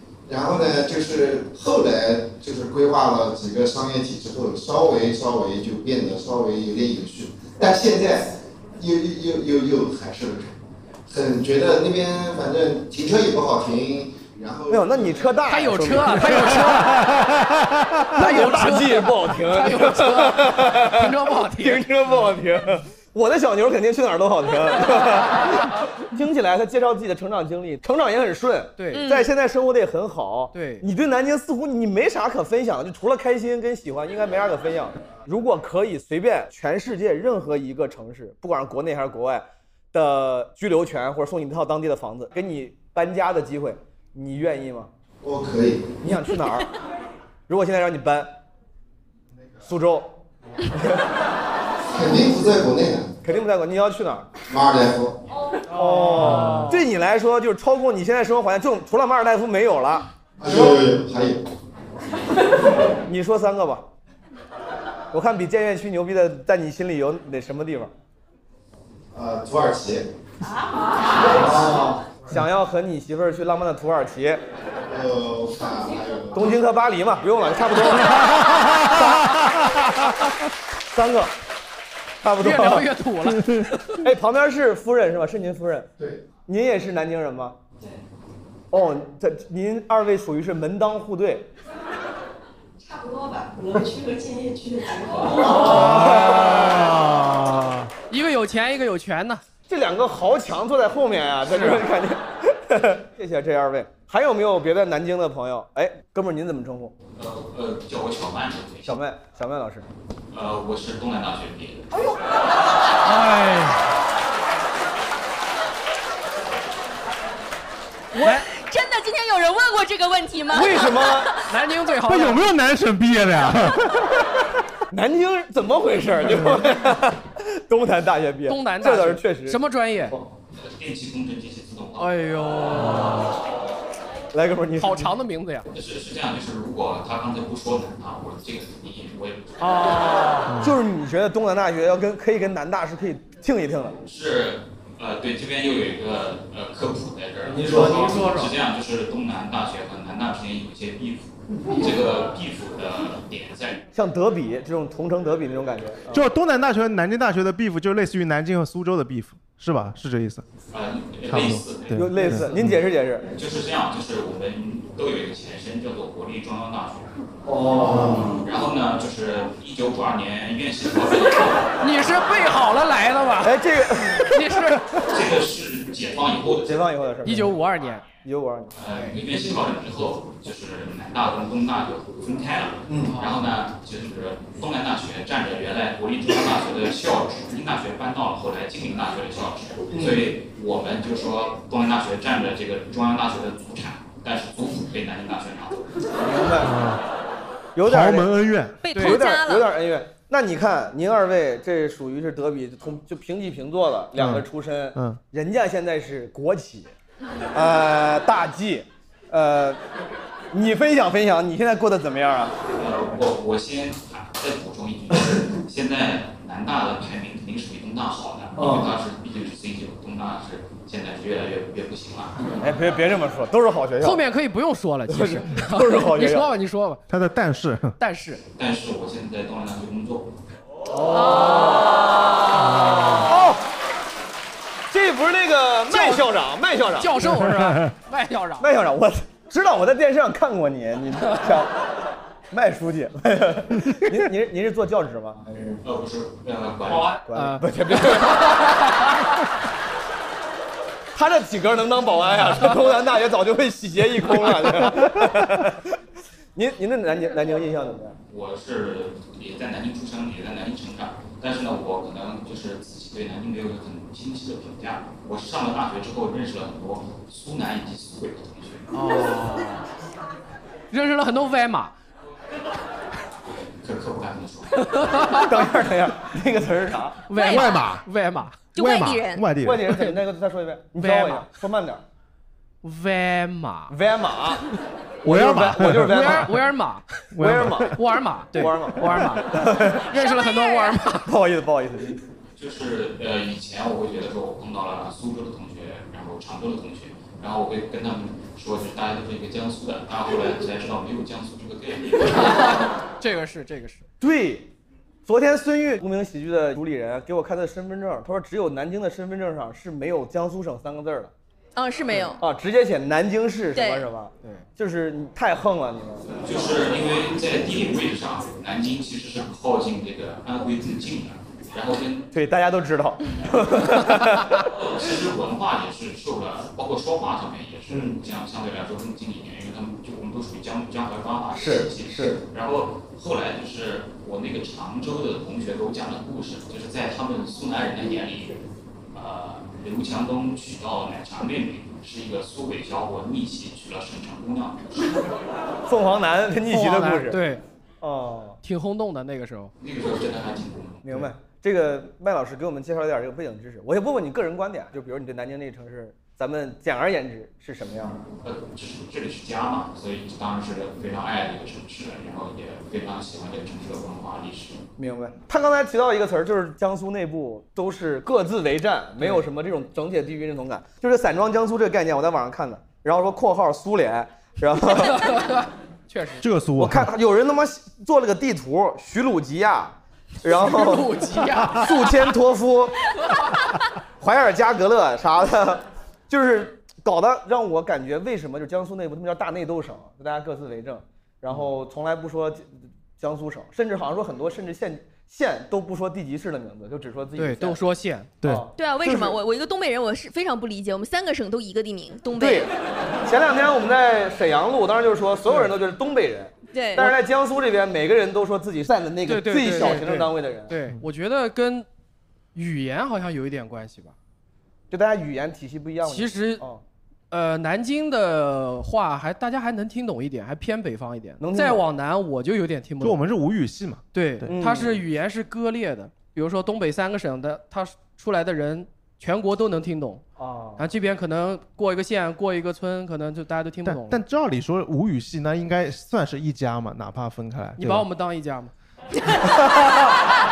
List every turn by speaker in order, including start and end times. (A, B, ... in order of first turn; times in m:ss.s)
0:00.3-0:15.4 A
0:14.7-0:16.8 B
0:15.4-0:17.1 C
0:18.2-0:21.9 C
0:18.2-0:44.9 B
0:28.8-0:29.1 C
0:28.9-0:29.3 D
0:30.5-0:30.8 C
0:45.2-0:45.9 A
0:46.0-0:46.7 B
0:47.5-0:48.4 B
0:49.6-0:50.1 B
0:50.7-0:51.0 B
0:51.9-0:53.1 A
0:53.2-0:54.3 B
0:54.5-0:55.2 A
0:55.7-0:56.8 C
0:55.7-1:00.8 B
1:00.4-1:01.4 A
1:03.0-1:03.9 B
1:05.1-1:07.9 B
1:09.1-1:10.1 A
1:11.2-1:12.0 A
1:11.2-1:14.4 B
1:14.9-1:16.6 A
1:16.4-1:18.2 B
1:18.9-1:19.4 B
1:20.9-1:21.3 B
1:22.2-1:22.9 B
1:22.4-1:24.0 C
1:24.0-1:25.9 B
1:26.5-1:27.6 B
1:28.7-1:31.5 B
1:32.8-1:35.4 E
1:35.4-1:36.6 B
1:35.4-1:36.0 C
1:35.6-1:37.9 F
1:38.1-1:39.4 C
1:39.7-1:46.9 B
1:41.5-1:41.8 C
1:47.2-1:49.0 G
1:48.8-1:49.9 B
1:50.3-1:52.2 G
1:53.0-1:53.8 C
1:58.2-1:58.5 C
1:58.2-2:01.4 D
2:00.5-2:01.3 B
2:01.5-2:02.5 C
2:02.0-2:04.2 F
2:04.9-2:10.2 B
2:06.4-2:06.6 F
2:08.5-2:10.2 C
2:10.6-2:12.4 G
2:12.0-2:13.3 C
2:14.3-2:15.1 B
2:14.8-2:15.7 C
2:15.7-2:20.2 G
2:19.6-2:20.5 C
2:20.5-2:20.8 F
2:20.6-2:24.0 B
2:24.0-2:33.8 G
2:27.5-2:28.1 B
2:27.6-2:28.6 C
2:33.9-2:36.2 B
2:36.1-2:40.4 F
2:40.7-2:42.0 G
2:41.3-2:42.8 F
2:42.0-2:43.3 B
2:43.4-2:47.1 G
2:47.5-2:48.4 B
2:47.8-2:48.3 F
2:48.0-2:51.7 G
2:51.8-2:53.6 C
2:53.4-2:54.4 B
2:54.1-2:54.8 C
2:55.1-2:56.8 G
2:56.6-2:57.6 B
2:57.2-2:58.1 C
2:58.2-2:58.8 B
2:58.8-3:15.8 G
2:58.9-2:59.2 C
3:02.9-3:03.1 B
3:03.0-3:03.4 C
3:09.9-3:10.3 B
3:16.2-3:16.7 B
3:16.6-3:17.0 F
3:17.8-3:18.4 B
3:17.8-3:18.8 F
3:18.8-3:19.7 D
3:19.0-3:26.9 B
3:24.2-3:25.2 F
3:27.5-3:29.8 B
3:30.5-3:32.6 B
3:32.8-3:42.6 G
3:38.6-3:38.9 B
3:42.6-3:44.2 B
3:44.0-3:47.0 C
3:45.1-3:46.5 B
3:47.1-3:48.0 F
3:48.0-3:48.4 C
3:48.6-3:50.3 G
3:51.0-3:51.8 B
3:51.0-3:51.8 C
3:53.2-3:53.6 B
3:54.9-3:57.4 B
3:55.9-3:56.2 C
3:57.0-3:58.7 C
3:58.6-4:01.7 B
4:02.5-4:05.8 B
4:05.8-4:07.2 G
4:07.2-4:08.4 B
4:07.3-4:07.7 C
4:11.2-4:15.8 B
4:16.6-4:18.2 B
4:18.3-4:28.9 G
4:28.9-4:29.9 C
4:30.9-4:31.9 C
4:33.8-4:34.9 G
4:34.8-4:35.5 C
4:35.4-4:37.2 B
4:37.3-4:38.7 C
4:37.3-4:37.9 D
4:37.5-4:38.1 F
4:38.7-4:39.5 D
4:38.8-4:39.9 F
4:39.6-4:42.0 B
4:41.0-4:41.5 C
4:42.8-4:43.9 C
4:43.9-4:44.6 B
4:45.2-4:46.6 B
4:45.2-4:46.4 F
4:45.9-4:47.1 C
4:47.4-4:47.9 F
4:47.4-4:48.0 B
4:48.0-4:51.3 C
4:48.5-4:50.1 B
4:50.2-4:51.0 D
4:51.2-4:52.2 B
4:52.6-5:02.6 G
5:02.3-5:04.0 C
5:04.2-5:04.7 B
5:05.3-5:11.3 B
5:11.8-5:12.4 D
5:12.4-5:16.3 B
5:13.8-5:14.1 D
5:16.4-5:22.2 G
5:22.3-5:24.5 B
5:24.8-5:38.6 G
5:31.6-5:32.4 B
5:39.1-5:45.2 G
5:45.9-5:47.4 B
5:46.6-5:47.6 C
5:48.0-5:48.6 B
5:48.6-5:49.7 C
5:49.8-5:51.1 G
5:51.0-5:58.2 B
5:58.4-6:04.8 G
6:05.0-6:15.2 B
6:09.2-6:09.4 C
6:15.0-6:16.5 C
6:16.4-6:17.1 F
6:16.8-6:21.1 B
6:20.5-6:21.9 C
6:21.8-6:23.0 B
6:24.2-6:37.8 B
6:37.4-6:38.4 C
6:38.4-6:39.4 B
6:38.8-6:42.7 D
6:42.4-6:42.7 B
6:43.2-6:50.7 B
6:46.7-6:47.1 D
6:49.3-6:51.9 C
6:52.6-6:54.2 C
6:54.9-6:56.8 B
6:56.0-6:56.6 C
6:57.3-7:03.2 C
7:01.4-7:01.8 B
7:03.0-7:04.5 F
7:04.1-7:10.2 C
7:04.5-7:05.0 B
7:10.4-7:10.8 B
7:10.8-7:14.2 C
7:13.8-7:18.1 F
7:17.8-7:18.7 C